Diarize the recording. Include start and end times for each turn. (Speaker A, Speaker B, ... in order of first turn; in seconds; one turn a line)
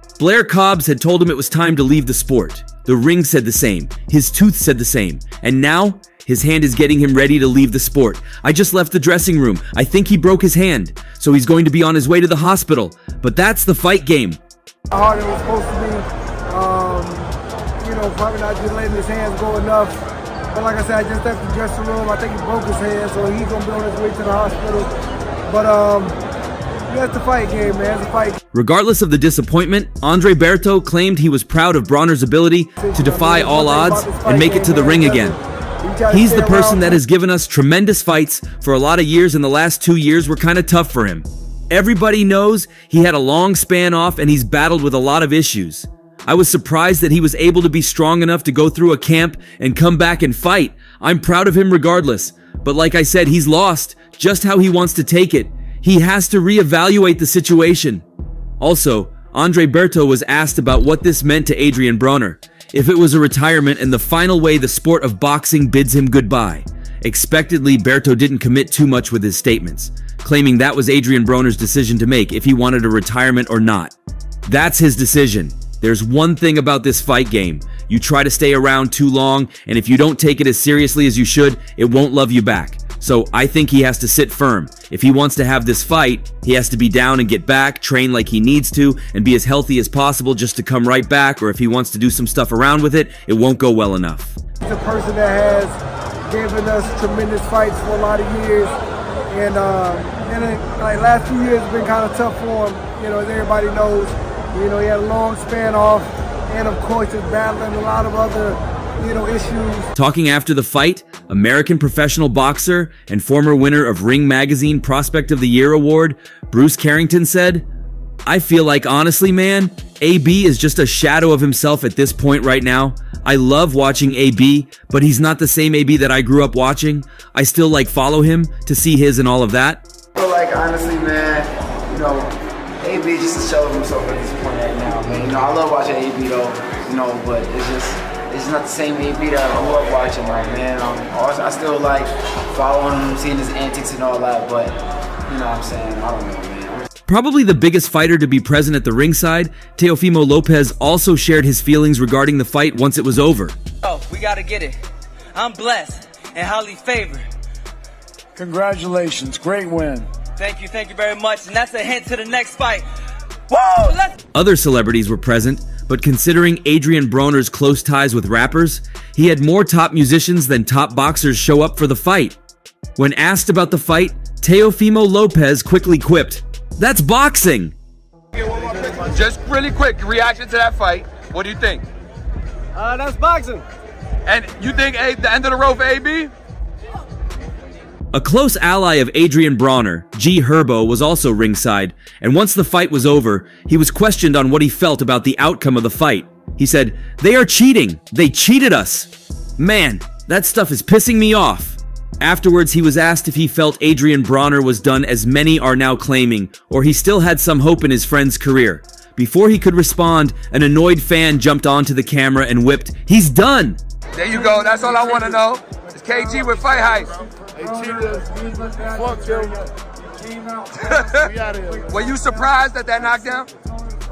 Speaker A: 0.2-14.4
Speaker B: 14.9-24.9
Speaker B: 25.5-26.2
Speaker B: 26.9-28.4
Speaker A: 28.5-35.4
Speaker B: 32.8-37.0
Speaker A: 36.1-58.0
Speaker A: 58.6-73.9
Speaker A: 74.5-94.4
Speaker B: 94.6-98.8
Speaker B: 99.3-109.9
Speaker A: 110.0-117.7
Speaker A: 118.3-129.8
Speaker C: 130.2-146.9
Speaker A: 147.1-153.6
Speaker D: 153.8-154.8
Speaker D: 155.3-157.3
Speaker E: 158.4-160.1
Speaker D: 160.4-162.9
Speaker D: 163.5-164.1
Speaker A: 164.3-172.4
Speaker A: 173.0-177.8
Speaker A: 179.3-181.7
Speaker F: 179.9-181.5
Speaker D: 182.8-183.6
Speaker A: 184.3-186.3
Speaker A: 188.1-213.8
Speaker F: 214.3-215.6
Speaker F: 216.1-217.1
Speaker E: 217.4-219.7
Speaker E: 221.3-221.8
Speaker F: 222.0-223.3